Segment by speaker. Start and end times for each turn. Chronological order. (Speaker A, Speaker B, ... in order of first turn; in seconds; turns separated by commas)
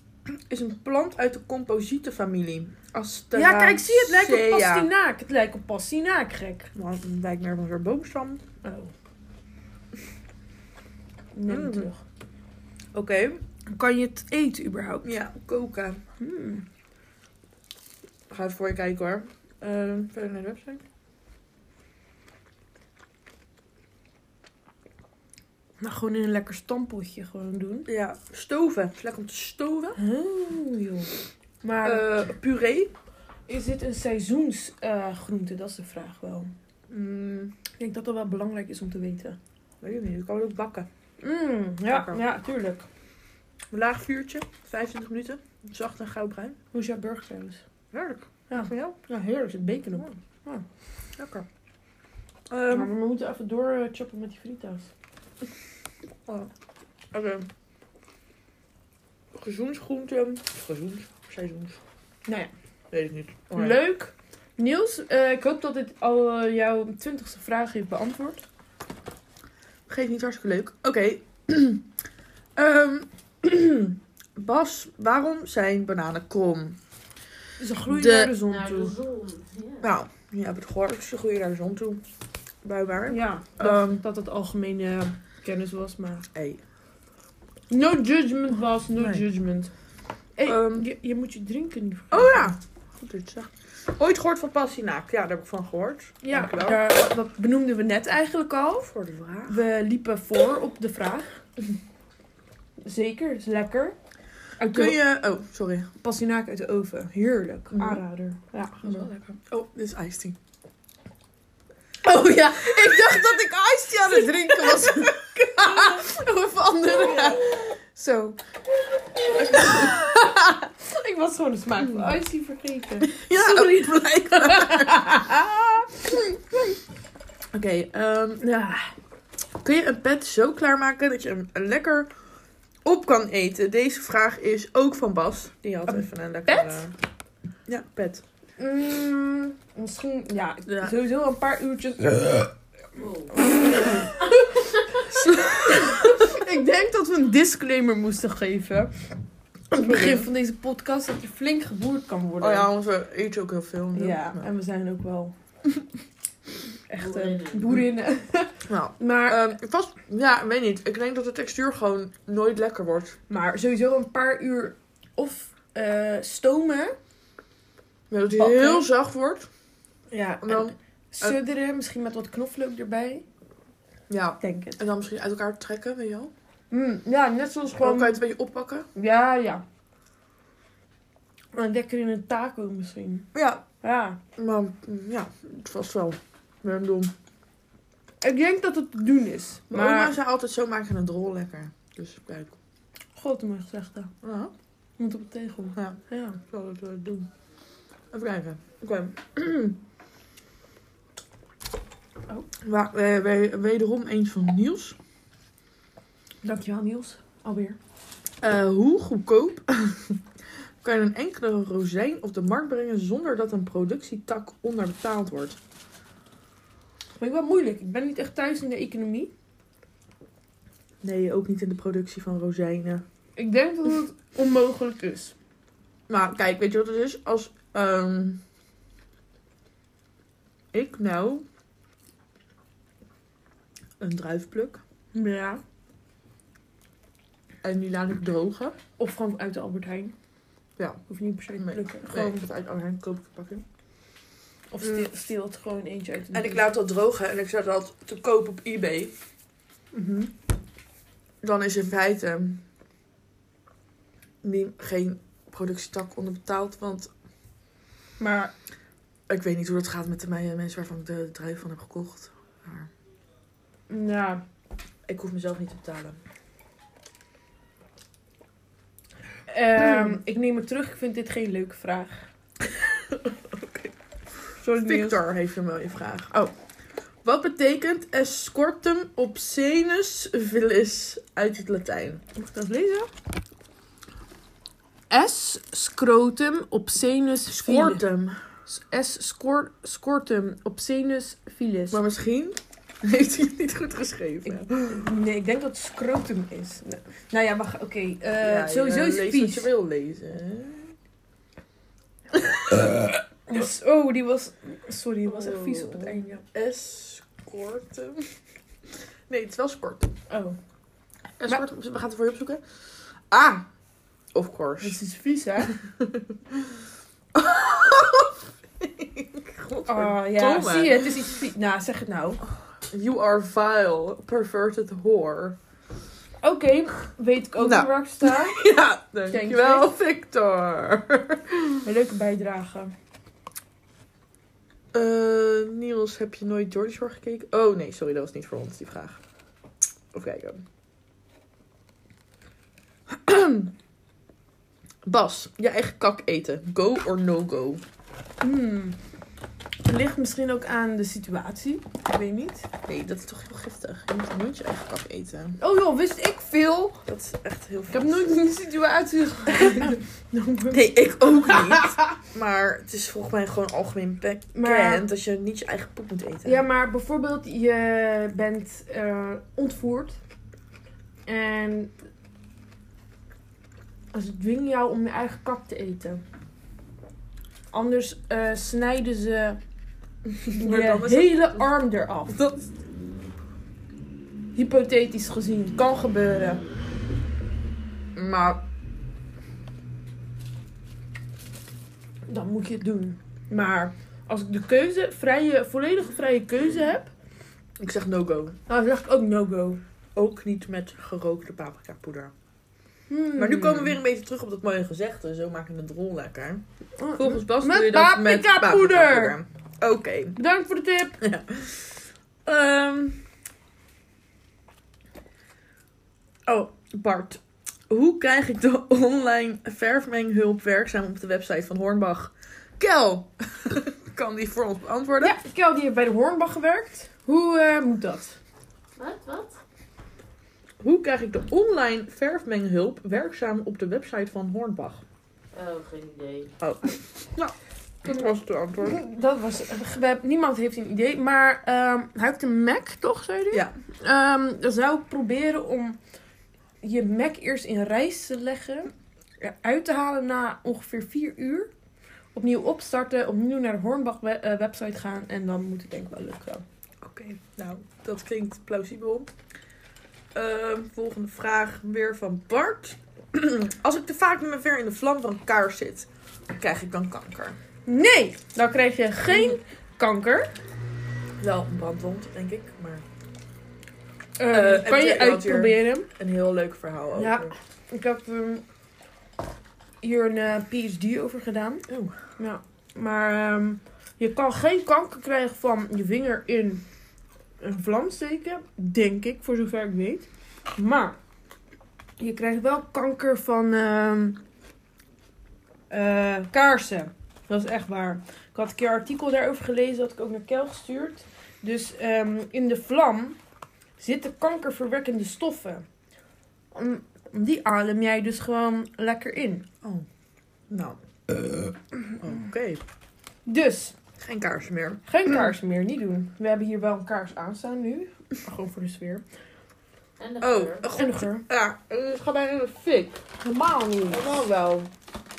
Speaker A: 0.2-4.9, Speaker B: 3.3-6.7, Speaker A: 6.7-8.4, Speaker B: 8.6-8.9, Speaker B: 11.3-12.0, Speaker A: 11.5-11.9, Speaker A: 12.9-13.4, Speaker B: 13.7-15.1, Speaker A: 15.0-16.0, Speaker B: 16.2-16.6, Speaker A: 18.3-20.8, Speaker B: 25.8-27.9, Speaker A: 27.9-30.0, Speaker B: 29.9-32.1, Speaker A: 31.8-32.9, Speaker B: 33.5-36.5, Speaker A: 36.9-37.5, Speaker B: 37.8-39.4, Speaker A: 39.8-40.9, Speaker B: 41.2-42.9, Speaker A: 41.9-42.2, Speaker A: 43.7-46.6, Speaker B: 46.7-47.6, Speaker A: 47.9-49.0, Speaker B: 48.5-50.6, Speaker A: 51.2-51.5, Speaker A: 52.5-52.9, Speaker B: 52.7-54.9, Speaker A: 57.1-57.5, Speaker A: 59.3-61.8, Speaker B: 62.2-62.5, Speaker A: 62.9-63.8, Speaker B: 63.5-68.4, Speaker A: 69.9-71.8, Speaker A: 72.5-76.8, Speaker B: 77.6-78.9, Speaker A: 77.9-78.3, Speaker C: 78.4-79.9, Speaker A: 79.8-82.0, Speaker A: 82.6-84.0, Speaker B: 83.1-86.3, Speaker A: 86.3-86.6, Speaker B: 87.7-89.7, Speaker A: 89.0-89.2, Speaker B: 90.3-92.5, Speaker A: 90.4-90.9, Speaker A: 92.1-96.8, Speaker B: 96.2-98.9, Speaker A: 98.8-99.6, Speaker B: 99.5-101.4, Speaker B: 102.8-104.0, Speaker B: 104.6-105.0, Speaker A: 104.7-105.9, Speaker B: 106.0-109.1, Speaker A: 107.7-108.0, Speaker A: 108.8-110.4, Speaker B: 112.0-118.4, Speaker A: 112.5-116.2, Speaker A: 116.8-117.7, Speaker B: 119.2-126.7, Speaker A: 119.4-120.3, Speaker A: 121.8-122.2, Speaker A: 123.0-125.2, Speaker A: 127.5-128.4, Speaker B: 128.4-128.9, Speaker A: 129.6-132.1, Speaker A: 132.8-136.9, Speaker B: 135.9-136.9, Speaker A: 137.7-138.2, Speaker B: 138.6-142.5, Speaker A: 140.7-140.9, Speaker C: 142.9-144.0, Speaker B: 143.3-144.2, Speaker A: 145.1-146.2, Speaker B: 145.2-148.9, Speaker B: 149.7-152.7, Speaker A: 149.8-150.3, Speaker A: 152.4-154.4, Speaker B: 153.9-155.3, Speaker B: 156.9-159.5, Speaker C: 157.0-157.8, Speaker A: 158.7-163.2, Speaker B: 163.3-166.9, Speaker A: 168.1-169.5, Speaker B: 168.3-168.9, Speaker B: 170.1-173.2, Speaker A: 170.4-171.4, Speaker A: 174.1-176.3, Speaker B: 174.4-174.8, Speaker B: 176.7-178.2, Speaker A: 177.7-178.9, Speaker B: 178.9-179.6, Speaker B: 181.5-183.3, Speaker A: 183.3-183.6, Speaker B: 183.8-184.2, Speaker A: 184.3-187.1, Speaker B: 188.2-190.2, Speaker A: 189.7-192.6, Speaker B: 193.2-194.1, Speaker A: 194.2-194.5, Speaker B: 195.0-196.4, Speaker A: 195.7-197.3, Speaker A: 198.1-199.8, Speaker A: 202.6-205.0, Speaker B: 206.4-207.8, Speaker A: 208.4-210.2, Speaker A: 210.8-215.6, Speaker B: 217.2-219.3, Speaker A: 221.0-223.0, Speaker B: 223.4-225.3, Speaker A: 226.1-228.4, Speaker A: 230.7-231.4, Speaker A: 234.0-234.8, Speaker B: 235.1-235.6, Speaker A: 237.6-238.8, Speaker B: 239.0-240.1, Speaker A: 240.8-241.0, Speaker B: 241.1-242.4, Speaker A: 241.6-243.6, Speaker B: 244.7-246.7, Speaker A: 244.8-245.1, Speaker A: 246.3-249.1, Speaker B: 249.9-250.3, Speaker A: 251.4-252.6, Speaker A: 254.4-257.1, Speaker B: 258.2-258.5, Speaker A: 259.3-262.9, Speaker B: 263.9-264.4, Speaker A: 265.1-266.2, Speaker B: 269.5-272.3, Speaker A: 269.8-270.2, Speaker A: 272.6-273.9, Speaker B: 274.6-275.2, Speaker A: 274.6-276.3, Speaker A: 277.2-282.2, Speaker B: 282.3-283.1, Speaker B: 285.1-288.0, Speaker A: 287.5-288.4, Speaker B: 288.7-292.0, Speaker A: 291.9-295.0, Speaker B: 294.4-299.7, Speaker A: 298.4-300.9, Speaker A: 302.3-303.1, Speaker B: 303.5-306.4, Speaker A: 305.2-308.4, Speaker A: 309.3-310.1, Speaker B: 310.3-310.6, Speaker A: 311.4-312.6, Speaker A: 313.3-313.7, Speaker A: 314.3-315.0, Speaker B: 314.8-315.7, Speaker A: 315.6-316.8, Speaker A: 317.3-321.3, Speaker B: 319.9-322.4, Speaker A: 322.9-325.6, Speaker B: 326.4-328.6, Speaker A: 327.6-331.8, Speaker B: 329.3-329.9, Speaker B: 331.8-332.9, Speaker A: 334.9-339.2, Speaker A: 340.1-340.6, Speaker A: 343.1-343.7, Speaker A: 345.0-347.8, Speaker B: 348.4-349.0, Speaker B: 349.8-352.7, Speaker A: 352.9-355.6, Speaker B: 355.6-357.0, Speaker A: 357.1-358.4, Speaker B: 357.9-362.1, Speaker A: 360.7-366.6, Speaker B: 364.5-365.1, Speaker B: 366.4-370.2, Speaker B: 371.2-371.9, Speaker B: 374.1-376.2, Speaker B: 377.7-379.6, Speaker A: 380.3-381.7, Speaker B: 380.5-382.4, Speaker A: 382.3-382.7, Speaker B: 384.5-386.6, Speaker A: 388.1-388.6, Speaker B: 392.3-397.1, Speaker A: 397.8-398.6, Speaker B: 398.7-399.8, Speaker A: 400.1-402.3, Speaker B: 403.1-404.0, Speaker A: 403.4-410.4, Speaker B: 407.0-409.4, Speaker B: 410.4-411.2, Speaker A: 411.2-413.2, Speaker A: 416.4-425.4, Speaker B: 425.2-428.4, Speaker C: 428.9-429.6, Speaker A: 430.8-435.0, Speaker C: 435.5-436.5, Speaker A: 436.6-439.0, Speaker B: 438.8-446.0, Speaker B: 446.8-451.7, Speaker B: 452.3-456.6, Speaker A: 457.0-459.3, Speaker A: 460.3-467.6, Speaker B: 467.9-470.5, Speaker A: 469.3-469.6, Speaker A: 471.4-473.0, Speaker B: 474.4-476.1, Speaker A: 474.5-477.5, Speaker B: 477.1-478.6, Speaker B: 480.0-481.8, Speaker A: 481.9-482.1, Speaker B: 482.4-486.8, Speaker B: 487.6-491.2, Speaker B: 492.2-494.4, Speaker B: 495.9-503.4, Speaker B: 504.0-505.9, Speaker B: 506.7-509.7, Speaker A: 510.7-511.0, Speaker A: 512.2-512.8, Speaker B: 513.5-513.9, Speaker A: 514.2-515.0, Speaker B: 515.0-519.2, Speaker C: 520.2-520.9, Speaker A: 520.4-523.2, Speaker B: 520.9-521.4, Speaker B: 523.4-524.4, Speaker A: 524.1-524.9